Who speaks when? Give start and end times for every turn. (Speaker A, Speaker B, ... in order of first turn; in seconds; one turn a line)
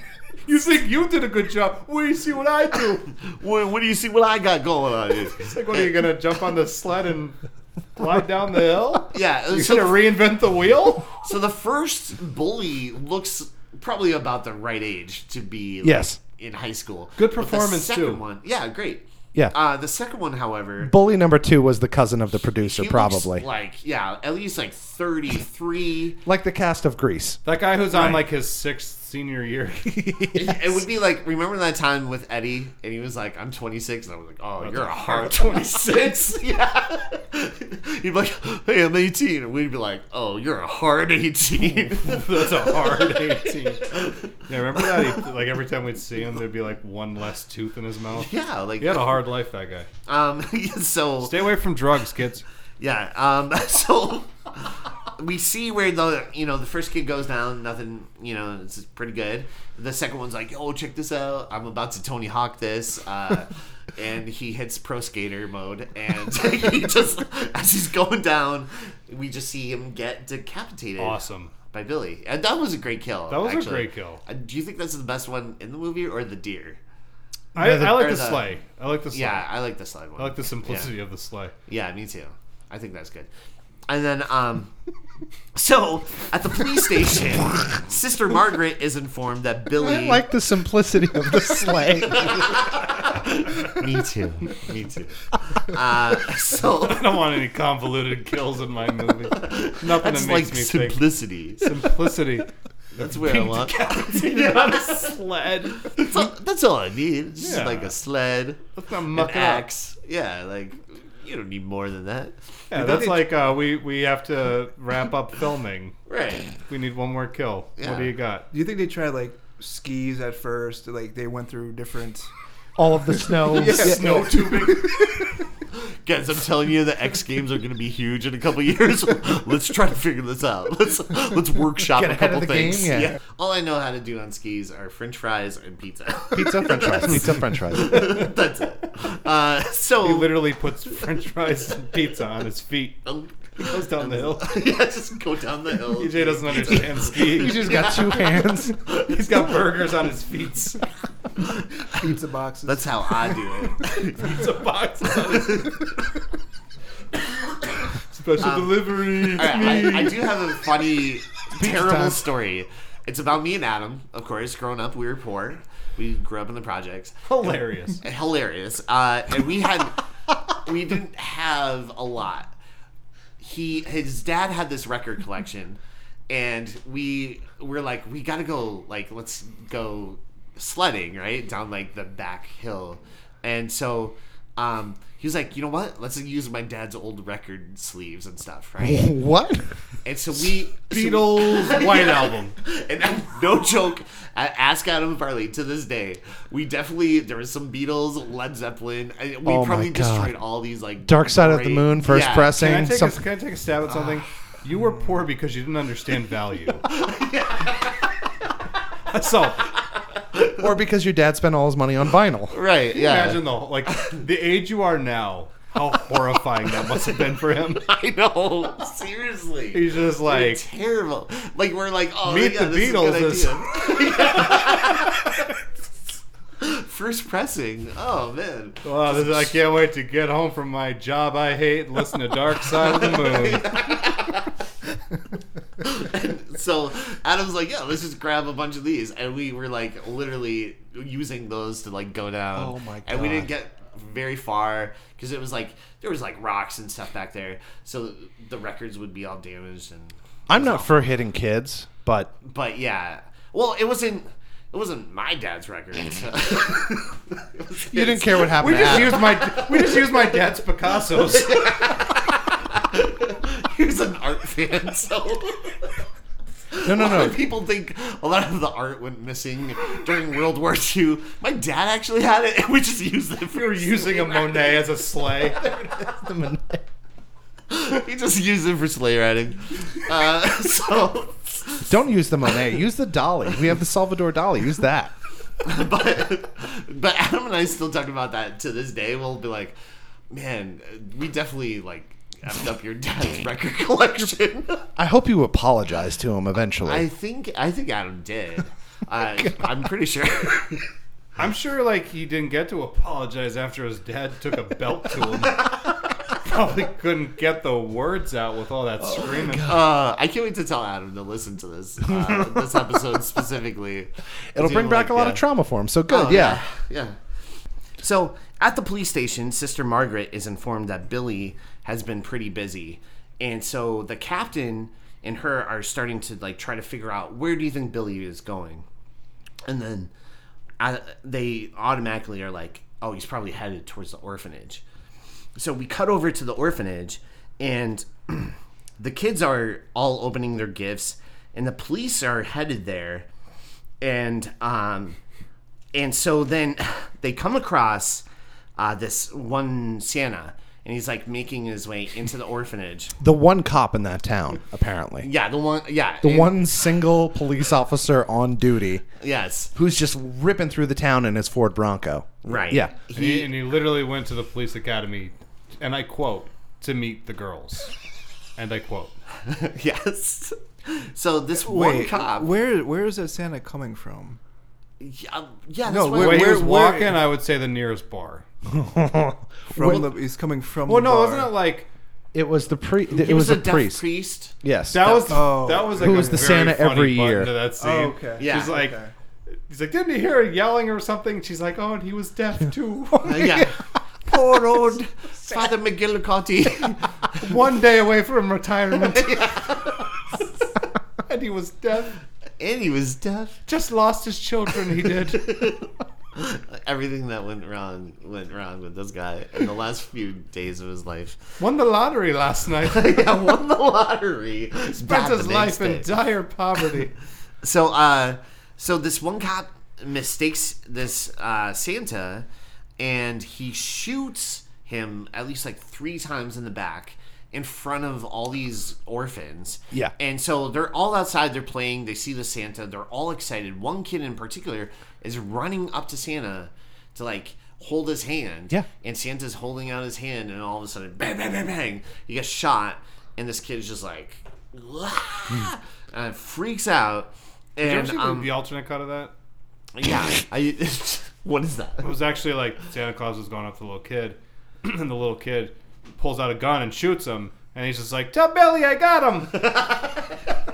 Speaker A: 0.5-3.1
Speaker B: 3.0-5.9
Speaker A: 5.4-7.4
Speaker A: 8.0-11.2
Speaker B: 9.1-10.1
Speaker B: 11.2-20.9
Speaker C: 15.8-16.2
Speaker A: 17.2-18.2
Speaker C: 20.8-23.5
Speaker B: 22.6-26.2
Speaker C: 26.2-27.4
Speaker A: 27.5-30.0
Speaker C: 27.9-28.2
Speaker C: 30.0-30.8
Speaker B: 30.3-45.2
Speaker A: 34.6-35.8
Speaker A: 42.0-49.9
Speaker B: 48.1-49.1
Speaker B: 50.1-51.5
Speaker A: 51.2-52.5
Speaker B: 52.8-76.8
Speaker A: 71.0-71.5
Speaker A: 73.3-74.2
Speaker C: 77.5-78.0
Speaker A: 77.5-79.5
Speaker B: 77.8-78.5
Speaker B: 79.1-80.9
Speaker A: 80.2-81.5
Speaker B: 81.7-83.3
Speaker B: 83.9-84.7
Speaker B: 85.5-90.3
Speaker C: 89.8-92.7
Speaker B: 92.0-97.1
Speaker A: 96.8-101.0
Speaker B: 99.3-101.7
Speaker A: 101.6-102.5
Speaker B: 102.9-105.1
Speaker A: 103.0-106.3
Speaker B: 105.8-112.4
Speaker A: 107.4-107.9
Speaker A: 108.8-109.7
Speaker A: 112.7-116.0
Speaker D: 112.7-113.2
Speaker B: 116.1-116.5
Speaker A: 116.6-118.5
Speaker B: 117.8-118.1
Speaker D: 118.5-122.3
Speaker C: 122.8-124.3
Speaker A: 123.5-125.2
Speaker D: 123.7-125.0
Speaker B: 125.7-140.4
Speaker C: 131.9-133.2
Speaker C: 136.3-138.1
Speaker A: 137.1-138.3
Speaker A: 140.0-143.1
Speaker B: 143.1-149.4
Speaker A: 143.6-144.6
Speaker A: 145.9-148.1
Speaker C: 147.1-148.8
Speaker A: 148.8-150.9
Speaker D: 151.9-153.4
Speaker B: 152.7-154.4
Speaker A: 154.1-155.9
Speaker B: 155.1-155.8
Speaker A: 157.9-160.7
Speaker B: 158.4-167.2
Speaker C: 161.5-162.2
Speaker A: 167.3-168.0
Speaker B: 168.0-170.0
Speaker B: 170.6-172.6
Speaker B: 173.4-189.2
Speaker C: 188.8-189.8
Speaker B: 190.0-202.6
Speaker A: 190.9-192.6
Speaker C: 199.4-200.3
Speaker C: 201.0-203.2
Speaker A: 202.5-206.8
Speaker D: 204.8-205.1
Speaker B: 206.8-208.2
Speaker A: 209.1-209.8
Speaker B: 210.3-210.6
Speaker C: 210.6-212.6
Speaker B: 212.5-214.2
Speaker A: 212.9-217.9
Speaker B: 217.8-225.4
Speaker A: 219.7-220.6
Speaker A: 222.2-225.2
Speaker B: 226.6-229.5
Speaker A: 228.8-233.7
Speaker B: 232.8-234.6
Speaker B: 235.8-251.0
Speaker C: 242.6-243.5
Speaker C: 250.5-252.3
Speaker B: 252.4-260.4
Speaker C: 257.9-259.5
Speaker A: 258.5-261.8
Speaker B: 261.1-265.9
Speaker B: 266.7-276.2
Speaker C: 266.8-267.4
Speaker A: 273.5-275.8
Speaker C: 276.1-276.8
Speaker B: 277.7-281.9
Speaker C: 281.9-285.1
Speaker B: 285.6-289.8
Speaker B: 290.3-294.9
Speaker C: 295.0-297.1
Speaker B: 296.8-300.9
Speaker A: 301.4-309.8
Speaker B: 309.5-315.4
Speaker C: 312.1-312.8
Speaker C: 314.6-316.6
Speaker B: 316.1-317.2
Speaker B: 318.0-328.9
Speaker B: 329.7-330.1
Speaker B: 330.8-334.8
Speaker B: 335.6-343.3
Speaker B: 344.0-345.2
Speaker B: 345.9-348.2
Speaker B: 348.8-353.1
Speaker C: 353.2-355.3
Speaker B: 355.2-356.7
Speaker C: 356.2-359.1
Speaker B: 359.2-359.7
Speaker C: 359.8-362.9
Speaker B: 362.4-363.5
Speaker A: 363.1-367.9
Speaker A: 368.6-369.1
Speaker B: 369.4-372.5
Speaker D: 371.6-374.4
Speaker B: 375.0-376.6
Speaker D: 375.9-377.2
Speaker A: 376.1-378.4
Speaker C: 378.7-380.1
Speaker D: 379.7-381.5
Speaker A: 380.9-381.9
Speaker C: 382.3-384.0
Speaker B: 383.1-385.3
Speaker C: 384.6-385.2
Speaker A: 384.9-389.0
Speaker D: 385.3-386.4
Speaker C: 385.9-387.5
Speaker D: 387.8-389.1
Speaker B: 388.4-388.8
Speaker A: 389.5-393.6
Speaker B: 393.2-397.4
Speaker C: 393.3-393.7
Speaker A: 397.4-400.0
Speaker B: 399.0-400.1
Speaker A: 401.3-402.2
Speaker B: 402.6-403.6
Speaker A: 403.7-405.7
Speaker B: 405.4-411.6
Speaker A: 411.6-413.3
Speaker B: 412.9-416.1
Speaker A: 415.0-417.1
Speaker B: 417.6-422.5
Speaker B: 423.0-448.5
Speaker A: 447.8-449.3
Speaker B: 449.9-452.1
Speaker A: 452.0-459.7
Speaker B: 459.6-460.4